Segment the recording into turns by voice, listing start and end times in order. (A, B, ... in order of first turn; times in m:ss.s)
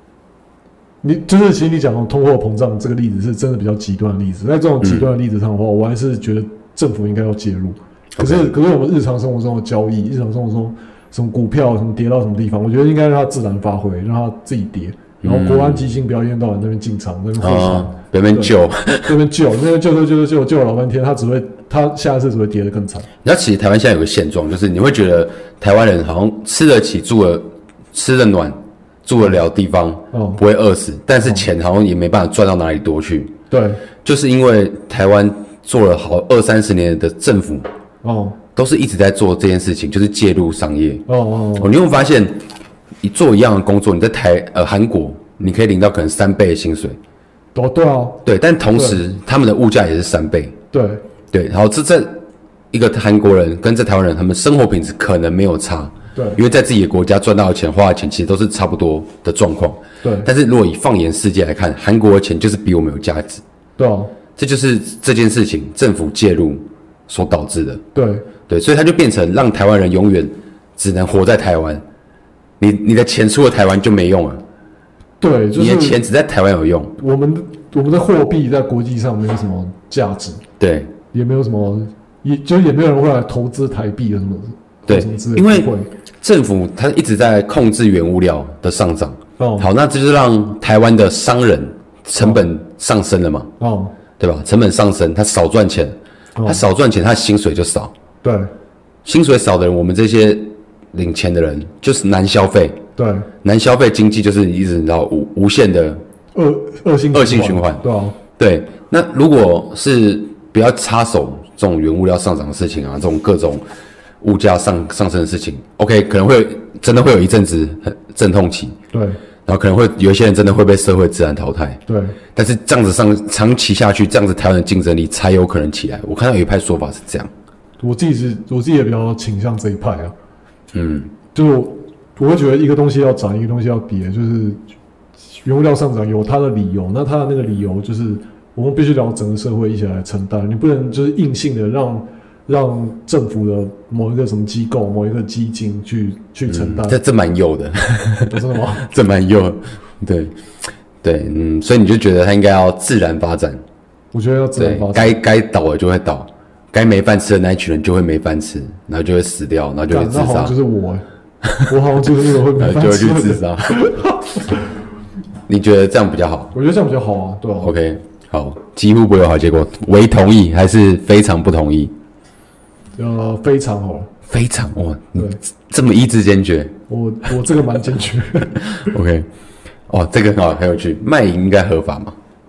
0:01.0-0:23.1 A
0:04.8-0:05.1 B
0:08.2-0:08.5 B
0:15.2-0:15.9 B
0:17.4-0:19.1 B
0:23.2-0:33.3 B
0:30.1-0:30.4 A
0:33.5-0:33.8 A
0:34.0-0:37.7 B
0:38.0-0:38.4 A
0:38.6-0:41.0 B
0:41.1-0:41.7 A
0:41.6-0:42.4 B
0:43.0-0:47.0 B
0:47.5-0:49.0 A
0:48.2-0:50.6 B
0:50.7-0:51.0 A
0:51.3-0:52.2 B
0:52.7-1:03.4 B
0:56.1-0:56.4 A
1:00.0-1:00.3 A
1:03.8-1:04.1 A
1:04.4-1:07.8 B
1:07.9-1:08.3 A
1:08.5-1:11.8 B
1:12.6-1:14.4 B
1:15.2-1:16.0 A
1:15.6-1:16.9 B
1:17.0-1:20.4 A
1:20.6-1:20.9 B
1:21.1-1:25.9 A
1:24.9-1:25.7 B
1:26.2-1:33.5 B
1:29.4-1:29.7 A
1:32.2-1:32.4 A
1:33.6-1:33.9 A
1:34.2-1:37.9 B
1:36.4-1:36.6 A
1:38.2-1:38.5 A
1:39.0-1:42.8 B
1:43.0-1:43.3 A
1:43.4-1:46.0 B
1:46.3-1:48.2 A
1:47.1-1:47.8 B
1:48.4-1:53.6 B
1:54.2-1:58.8 B
1:58.9-1:59.2 A
1:59.4-2:01.8 B
2:01.9-2:02.2 A
2:02.3-2:07.3 B
2:07.8-2:10.1 A
2:10.7-2:11.1 B
2:11.3-2:14.6 A
2:15.3-2:27.0 A
2:26.5-2:30.3 B
2:28.3-2:28.9 A
2:31.0-2:33.6 B
2:34.1-2:35.2 A
2:34.6-2:40.5 B
2:39.9-2:41.0 A
2:41.6-2:44.7 A
2:42.5-2:43.8 B
2:45.5-2:46.5 B
2:46.5-2:47.7 A
2:47.6-2:51.9 B
2:53.0-2:54.1 A
2:54.3-2:56.7 B
2:56.9-2:58.9 A
2:58.8-2:59.3 B
2:59.9-3:02.2 B